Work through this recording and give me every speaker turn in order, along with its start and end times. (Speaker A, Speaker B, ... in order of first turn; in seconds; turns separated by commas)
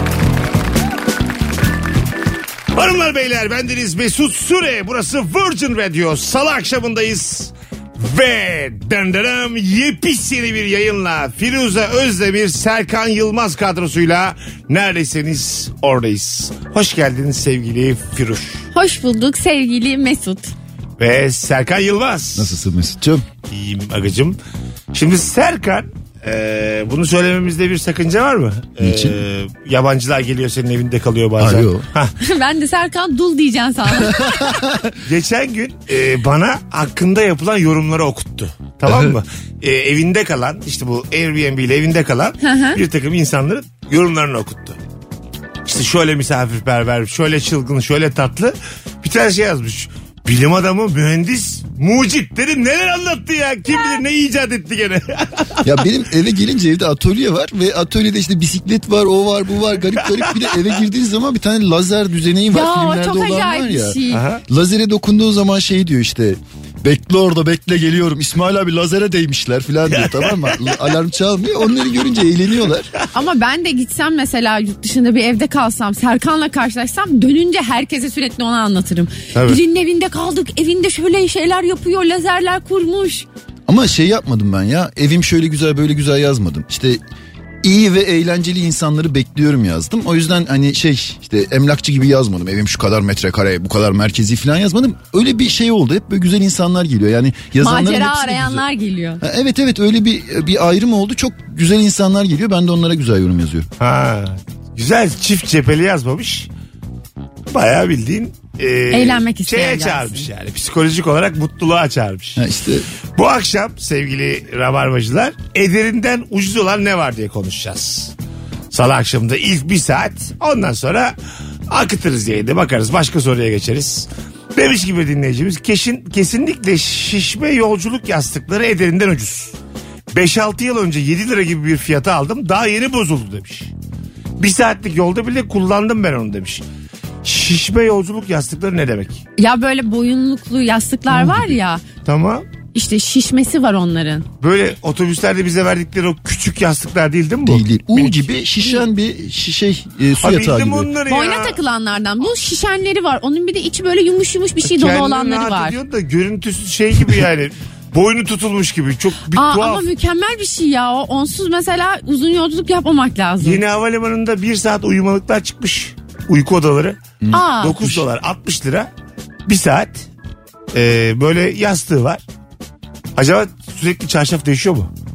Speaker A: 2.7-18.6, Speaker B: 18.7-20.5, Speaker A: 21.0-22.5, Speaker C: 22.4-23.2, Speaker A: 23.5-24.4, Speaker A: 24.9-32.1, Speaker C: 28.8-29.2, Speaker C: 31.4-31.8, Speaker B: 32.2-34.8, Speaker C: 33.9-34.9, Speaker A: 35.0-44.8, Speaker B: 42.4-42.8, Speaker A: 45.6-55.9, Speaker B: 53.7-54.0, Speaker C: 55.6-72.9, Speaker A: 60.0-60.6, Speaker B: 62.5-64.2, Speaker A: 64.1-64.4, Speaker A: 70.0-70.7, Speaker B: 73.1-83.3, Speaker A: 79.3-79.6, Speaker C: 83.7-87.0, Speaker C: 87.6-98.6, Speaker B: 97.6-99.2, Speaker C: 99.2-103.7, Speaker A: 103.8-106.5, Speaker A: 107.5-112.4, Speaker B: 108.9-110.3, Speaker C: 112.4-112.9, Speaker A: 113.2-118.1, Speaker A: 118.7-121.1, Speaker A: 121.7-129.5, Speaker A: 130.1-133.7, Speaker A: 134.4-136.6, Speaker A: 137.2-139.2, Speaker B: 139.4-141.8, Speaker C: 141.1-141.6, Speaker A: 142.0-142.4, Speaker B: 142.7-144.3, Speaker A: 144.4-148.3, Speaker C: 147.4-150.9, Speaker A: 150.2-151.6, Speaker B: 151.1-155.8, Speaker A: 154.6-159.8, Speaker B: 159.3-163.6, Speaker A: 163.4-168.9, Speaker C: 167.2-168.0, Speaker B: 167.3-167.8, Speaker A: 169.4-170.1, Speaker A: 170.7-172.2, Speaker A: 173.2-174.9